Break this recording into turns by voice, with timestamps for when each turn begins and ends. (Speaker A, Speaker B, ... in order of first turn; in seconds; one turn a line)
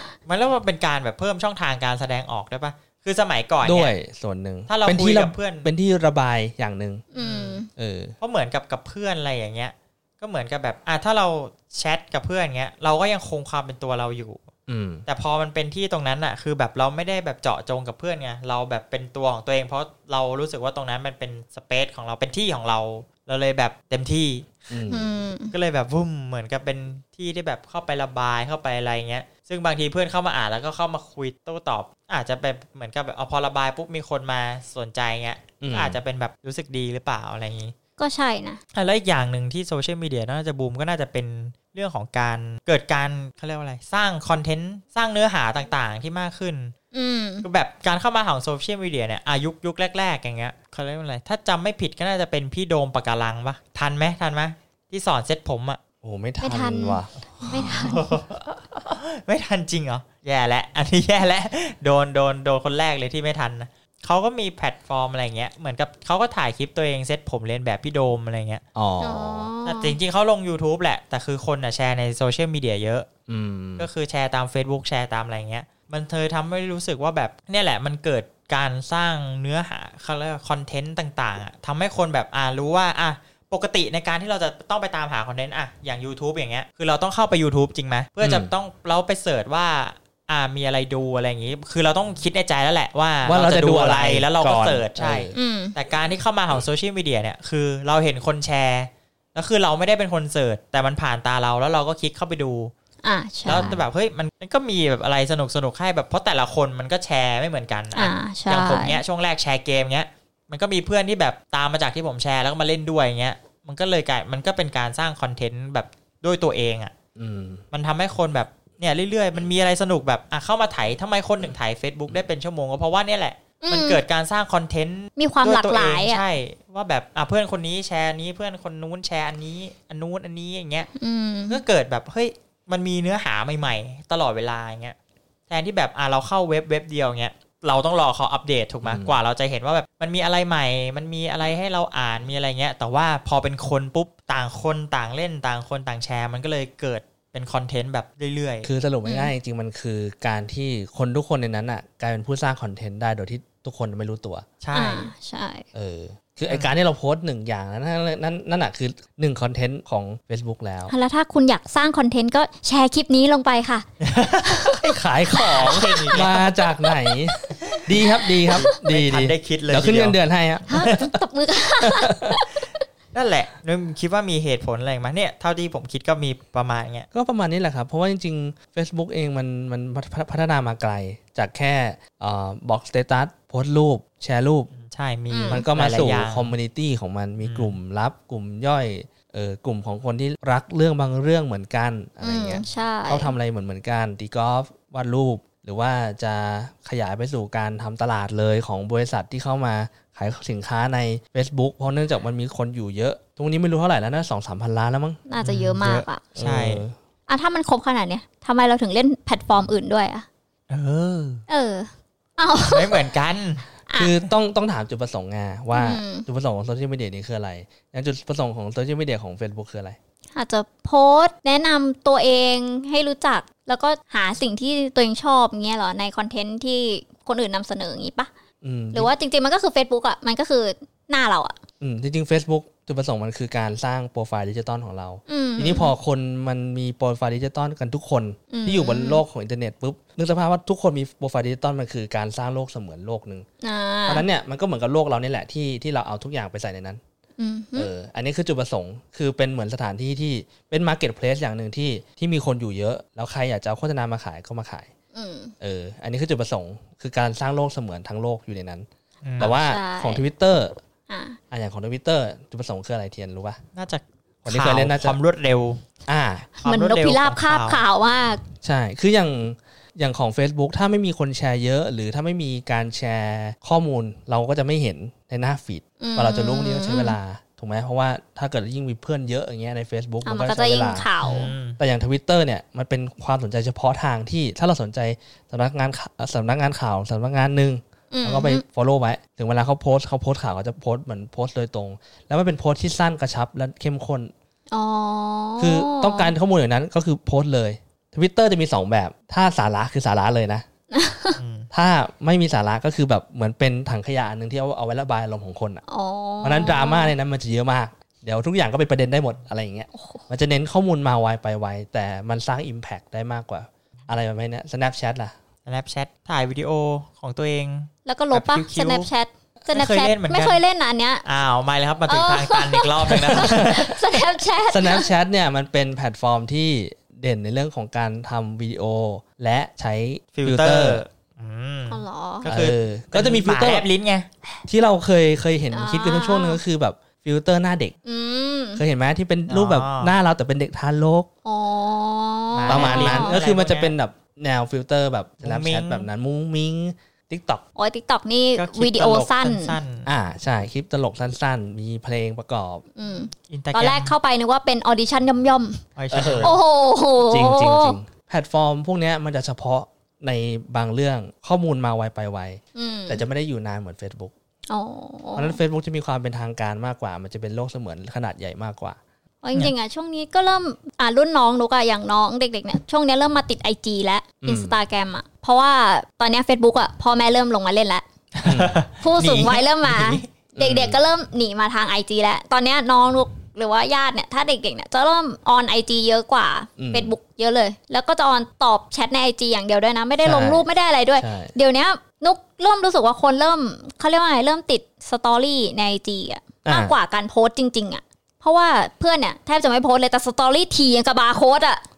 Speaker A: 0.2-3.9
Speaker B: 3.6-7.0
Speaker A: 4.7-5.7
Speaker C: 7.1-7.7
Speaker A: 7.2-7.6
Speaker B: 7.7-8.1
Speaker A: 8.2-14.4
Speaker B: 14.7-15.0
Speaker A: 15.1-24.6
Speaker B: 24.7-25.1
Speaker C: 24.9-25.5
Speaker A: 25.5-37.7
Speaker B: 35.6-36.0
Speaker C: 38.0-38.6
Speaker A: 38.7-46.7
Speaker C: 46.9-47.5
Speaker A: 47.4-55.8
Speaker B: 56.0-57.1
Speaker C: 56.4-58.1
Speaker A: 57.4-68.6
Speaker B: 68.7-69.5
Speaker C: 69.0-70.0
Speaker A: 69.6-73.1
Speaker B: 73.3-73.9
Speaker A: 73.8-102.7
Speaker B: 88.2-88.5
Speaker B: 93.2-95.3
Speaker C: 95.3-95.7
Speaker C: 103.0-103.7
Speaker A: 103.5-116.9
Speaker B: 103.5-103.8
Speaker C: 107.9-109.0
Speaker B: 117.2-117.6
Speaker A: 117.7-130.9
Speaker C: 123.6-124.0
Speaker C: 125.2-126.2
Speaker C: 130.9-131.6
Speaker A: 131.5-134.9
Speaker A: 135.5-148.7
Speaker B: 138.8-139.1
Speaker B: 148.6-154.4
Speaker C: 149.0-149.3
Speaker A: 154.6-155.1
Speaker C: 154.7-155.6
Speaker B: 155.7-160.9
Speaker C: 160.9-163.8
Speaker A: 164.0-164.9
Speaker C: 164.4-164.8
Speaker B: 164.8-171.1
Speaker C: 165.3-167.1
Speaker A: 165.5-166.3
Speaker A: 168.5-170.2
Speaker C: 170.7-172.6
Speaker B: 171.8-172.4
Speaker A: 173.1-177.1
Speaker B: 177.1-184.7
Speaker A: 184.7-186.5
Speaker C: 185.3-185.7
Speaker B: 185.5-205.2
Speaker A: 187.4-187.7
Speaker C: 192.2-193.3
Speaker C: 205.3-206.2
Speaker A: 205.4-206.8
Speaker B: 206.3-206.9
Speaker C: 207.3-210.2
Speaker A: 210.7-211.4
Speaker C: 211.5-213.0
Speaker A: 212.7-213.7
Speaker C: 213.9-214.1
Speaker B: 213.9-220.0
Speaker C: 215.7-216.2
Speaker C: 220.3-228.3
Speaker B: 228.6-229.1
Speaker C: 228.9-231.6
Speaker B: 231.8-243.4
Speaker C: 235.3-235.9
Speaker C: 238.5-239.2
Speaker C: 243.6-244.2
Speaker B: 244.1-247.0
Speaker C: 247.4-247.9
Speaker B: 247.8-254.9
Speaker C: 255.1-255.5
Speaker B: 255.6-258.9
Speaker A: 259.2-259.5
Speaker B: 259.4-260.8
Speaker C: 259.4-260.2
Speaker C: 261.1-261.4
Speaker B: 261.5-263.6
Speaker A: 263.7-265.8
Speaker B: 264.4-265.2
Speaker B: 266.1-266.5
Speaker A: 266.6-267.8
Speaker C: 266.6-268.4
Speaker B: 268.6-281.1
Speaker C: 276.0-277.2
Speaker C: 280.2-281.5
Speaker A: 281.2-281.8
Speaker B: 281.7-294.3
Speaker C: 288.1-288.6
Speaker C: 294.7-296.3
Speaker B: 295.6-300.6
Speaker C: 300.9-301.4
Speaker A: 301.4-301.7
Speaker B: 301.7-305.8
Speaker C: 305.9-307.1
Speaker B: 306.4-315.3
Speaker C: 309.9-310.2
Speaker A: 315.6-319.1
Speaker C: 318.1-321.2
Speaker A: 319.7-320.6
Speaker A: 321.2-324.2
Speaker C: 322.1-325.1
Speaker B: 323.1-323.8
Speaker B: 324.7-331.0
Speaker A: 330.3-334.3
Speaker C: 331.9-332.5
Speaker B: 332.4-333.9
Speaker B: 334.6-337.9
Speaker C: 335.7-336.6
Speaker C: 338.0-338.8
Speaker B: 338.8-341.3
Speaker A: 339.5-340.1
Speaker C: 341.4-343.4
Speaker A: 342.5-343.9
Speaker B: 342.7-347.6
Speaker A: 345.4-346.1
Speaker C: 347.8-349.8
Speaker A: 348.6-350.1
Speaker B: 350.1-352.8
Speaker C: 352.9-355.8
Speaker A: 353.5-354.1
Speaker A: 355.9-356.5
Speaker B: 356.1-356.6
Speaker C: 356.4-358.0
Speaker B: 357.2-364.3
Speaker C: 362.7-363.2
Speaker C: 364.7-365.6
Speaker B: 365.4-369.0
Speaker C: 369.4-378.0
Speaker B: 374.4-374.8
Speaker A: 378.3-380.3
Speaker B: 378.4-378.8
Speaker C: 379.0-401.8
Speaker B: 380.5-381.0
Speaker B: 386.8-387.1
Speaker B: 390.2-390.6
Speaker B: 391.2-391.5
Speaker B: 396.6-396.9